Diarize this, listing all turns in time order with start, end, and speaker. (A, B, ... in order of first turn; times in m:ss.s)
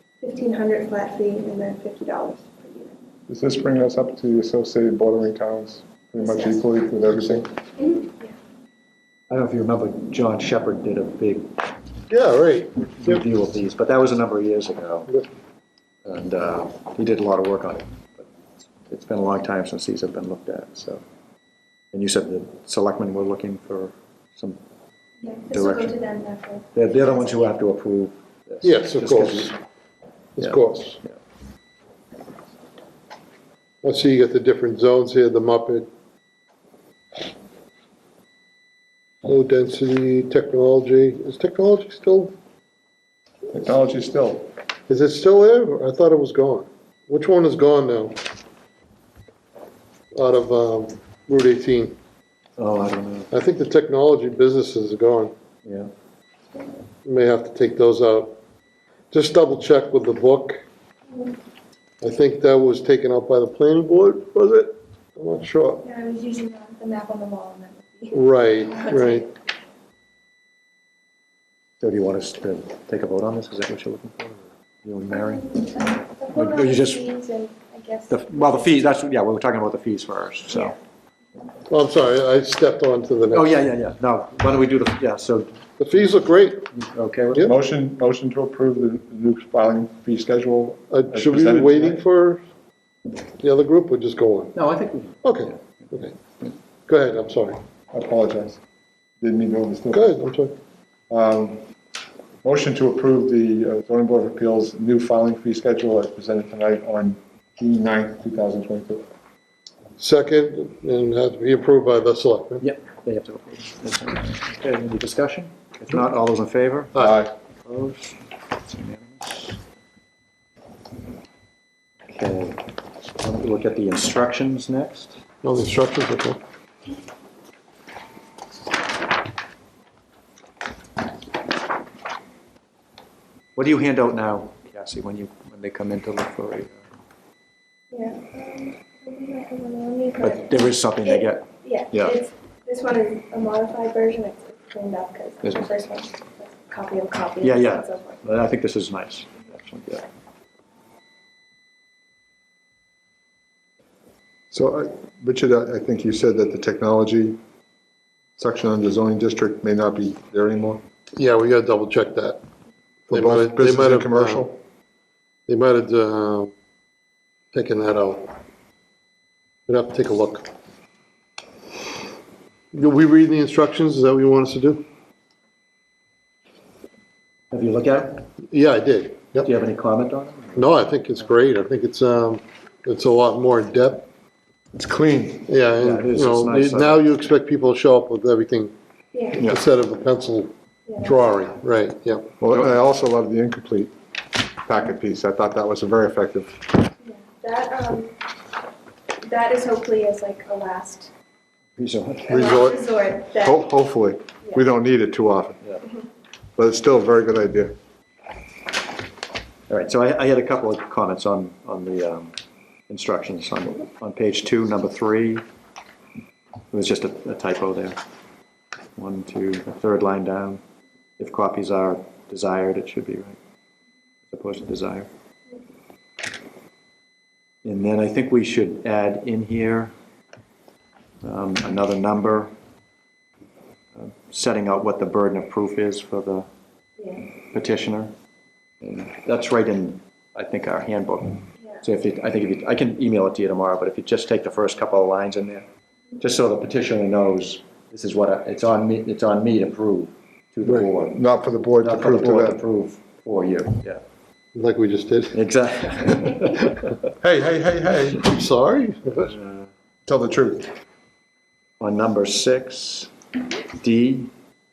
0:00.2-0:03.0 A
0:03.3-0:07.5 B
0:06.2-0:06.6 A
0:07.8-0:08.3 A
0:09.3-0:11.6 C
0:12.1-0:13.2 D
0:13.0-0:15.1 C
0:16.0-0:18.3 C
0:18.8-0:21.0 C
0:21.9-0:24.6 C
0:25.2-0:27.5 A
0:25.5-0:26.0 C
0:26.7-0:29.6 C
0:28.6-0:29.6 D
0:30.4-0:31.0 D
0:30.4-0:31.1 C
0:33.8-0:35.9 D
0:39.2-0:42.4 D
0:43.5-0:44.5 B
0:44.9-0:48.2 D
0:50.1-0:52.0 D
0:52.6-0:53.3 C
0:53.3-0:55.3 D
0:55.6-0:55.9 C
0:57.0-0:58.4 D
0:59.1-1:00.6 D
1:02.0-1:05.8 D
1:05.8-1:09.3 A
1:08.1-1:09.3 D
1:11.8-1:15.5 C
1:15.4-1:19.0 A
1:16.3-1:17.0 C
1:18.1-1:20.8 C
1:21.7-1:23.6 D
1:23.3-1:25.6 C
1:25.8-1:26.7 D
1:26.7-1:27.5 C
1:27.4-1:32.0 B
1:30.9-1:32.4 D
1:33.4-1:34.6 D
1:34.5-1:35.3 C
1:35.2-1:36.1 D
1:36.9-1:37.6 D
1:37.9-1:38.6 B
1:39.2-1:40.2 B
1:39.9-1:40.6 D
1:41.1-1:41.6 B
1:42.4-1:49.1 B
1:50.0-1:52.6 D
1:52.6-1:57.1 C
1:57.0-1:57.3 B
1:57.7-1:59.6 C
2:02.1-2:02.7 C
2:03.2-2:05.2 C
2:05.4-2:06.4 D
2:13.6-2:16.8 C
2:17.9-2:28.5 A
2:20.2-2:22.2 C
2:25.4-2:25.7 C
2:27.4-2:30.1 C
2:34.5-2:37.4 B
2:38.4-2:40.8 B
2:41.2-2:42.4 D
2:43.1-2:44.6 D
2:43.1-2:44.6 B
2:45.5-2:46.5 D
2:47.5-2:48.3 D
2:49.7-2:50.5 D
2:52.7-2:54.8 D
2:57.5-2:58.3 C
2:58.5-2:59.5 D
2:59.4-3:00.9 C
3:00.6-3:04.1 D
3:04.7-3:05.5 B
3:05.5-3:08.7 D
3:05.7-3:07.2 C
3:09.1-3:09.4 A
3:09.4-3:12.3 D
3:10.9-3:11.2 A
3:12.4-3:13.9 B
3:14.6-3:16.7 B
3:17.0-3:18.2 A
3:19.2-3:21.1 A
3:21.8-3:22.6 C
3:22.3-3:23.7 A
3:22.3-3:22.8 D
3:23.4-3:25.6 B
3:26.6-3:27.8 B
3:29.7-3:32.4 C
3:32.9-3:35.4 C
3:36.7-3:38.0 C
3:39.0-3:40.6 C
3:41.2-3:43.4 C
3:44.3-3:45.1 C
3:47.6-3:49.9 C
3:51.2-3:52.6 C
3:54.0-3:56.5 C
3:57.0-3:57.3 A
3:57.5-3:58.1 C
3:58.8-4:05.7 C
4:06.2-4:11.2 C
4:11.1-4:12.6 B
4:11.8-4:14.0 C
4:14.5-4:15.4 D
4:15.3-4:17.0 C
4:17.2-4:18.3 B
4:18.1-4:19.4 D
4:20.1-4:20.7 B
4:21.8-4:23.1 C
4:23.8-4:24.3 C